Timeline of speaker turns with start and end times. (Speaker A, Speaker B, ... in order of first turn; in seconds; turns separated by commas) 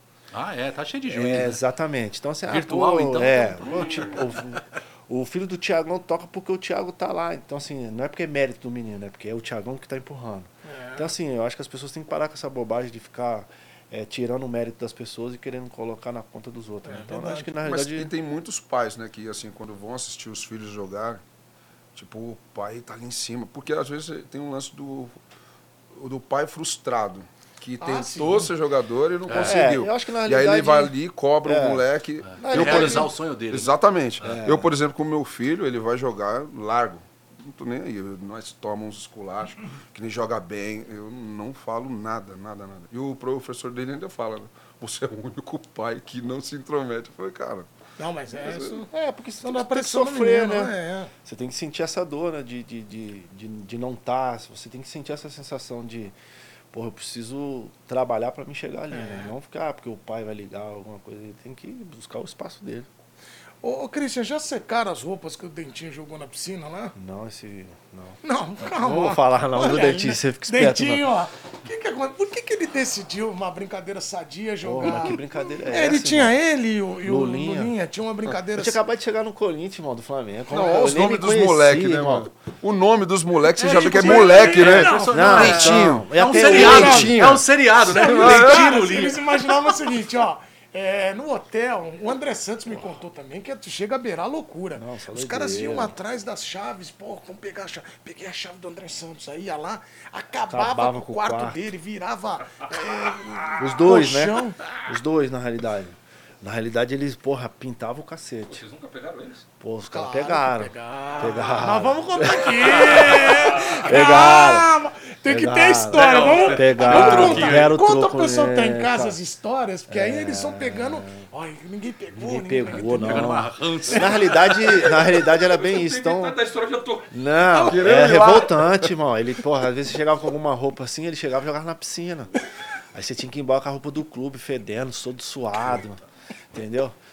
Speaker A: 0.3-1.6, Speaker B: 1.1-18.1, Speaker A: 2.5-4.3, Speaker C: 10.6-11.1, Speaker C: 16.8-17.5, Speaker D: 17.6-21.2, Speaker D: 21.9-25.2, Speaker D: 25.9-47.7, Speaker C: 27.8-28.5, Speaker A: 29.3-29.6, Speaker B: 29.3-33.1, Speaker A: 32.2-34.4, Speaker B: 34.2-34.7, Speaker C: 48.0-48.9, Speaker D: 48.4-48.7, Speaker B: 48.7-56.1, Speaker C: 49.4-51.1, Speaker B: 56.7-62.9, Speaker C: 58.9-59.3, Speaker C: 63.6-66.9, Speaker B: 66.9-71.1, Speaker C: 68.2-78.8, Speaker B: 74.6-76.3, Speaker B: 77.0-77.7, Speaker B: 78.5-82.3, Speaker C: 80.5-80.9, Speaker D: 80.5-88.8, Speaker C: 83.6-85.6, Speaker A: 83.6-89.7, Speaker B: 85.0-87.4, Speaker C: 86.2-87.2, Speaker C: 87.8-104.6, Speaker B: 94.7-95.9, Speaker B: 100.5-101.6, Speaker B: 103.6-108.6, Speaker E: 108.5-109.5, Speaker B: 109.6-114.7, Speaker C: 109.9-123.3, Speaker B: 115.2-119.2, Speaker A: 115.9-117.7, Speaker B: 119.9-121.2, Speaker B: 122.1-126.4, Speaker A: 122.8-124.5, Speaker E: 124.4-127.9, Speaker B: 127.1-132.3, Speaker D: 127.7-128.9, Speaker B: 132.9-136.0, Speaker B: 136.5-136.9